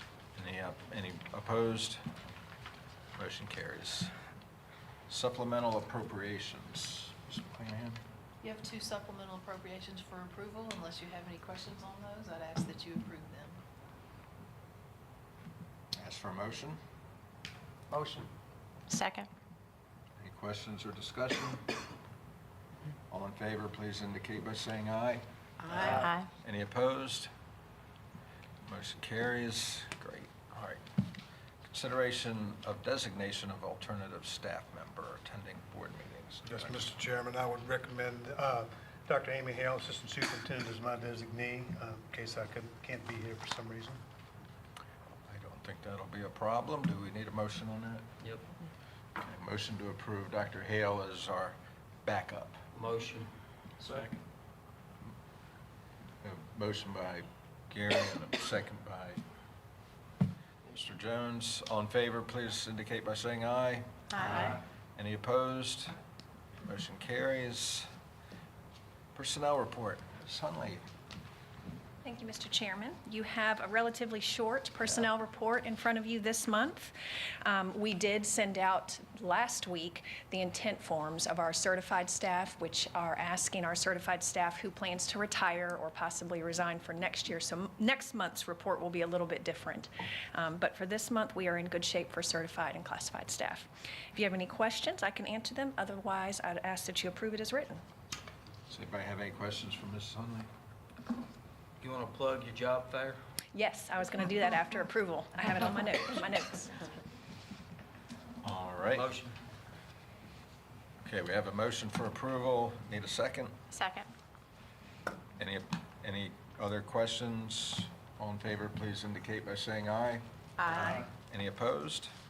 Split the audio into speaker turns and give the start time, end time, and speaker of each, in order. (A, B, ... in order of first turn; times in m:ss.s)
0:00.3-0:02.0 A
0:03.1-0:04.1 A
0:05.1-0:08.0 A
0:08.4-0:13.6 B
0:15.9-0:16.8 A
0:17.9-0:18.3 C
0:18.9-0:19.3 D
0:20.2-0:21.7 A
0:23.1-0:27.3 A
0:25.9-0:26.3 D
0:28.6-0:30.8 A
0:31.7-0:36.8 A
0:36.4-0:44.0 E
0:45.3-0:48.0 A
0:49.2-0:52.6 A
0:52.7-0:53.3 C
0:56.2-0:59.2 A
1:00.6-1:05.9 A
1:04.1-1:04.5 D
1:06.6-1:07.9 A
1:09.1-1:10.8 A
1:12.0-1:37.8 F
1:38.7-1:40.5 A
1:41.8-1:43.2 C
1:43.5-1:46.8 F
1:48.4-1:49.1 A
1:48.9-1:49.4 C
1:51.0-1:53.5 A
1:53.7-1:54.1 D
1:55.4-2:02.1 A
2:00.6-2:00.9 D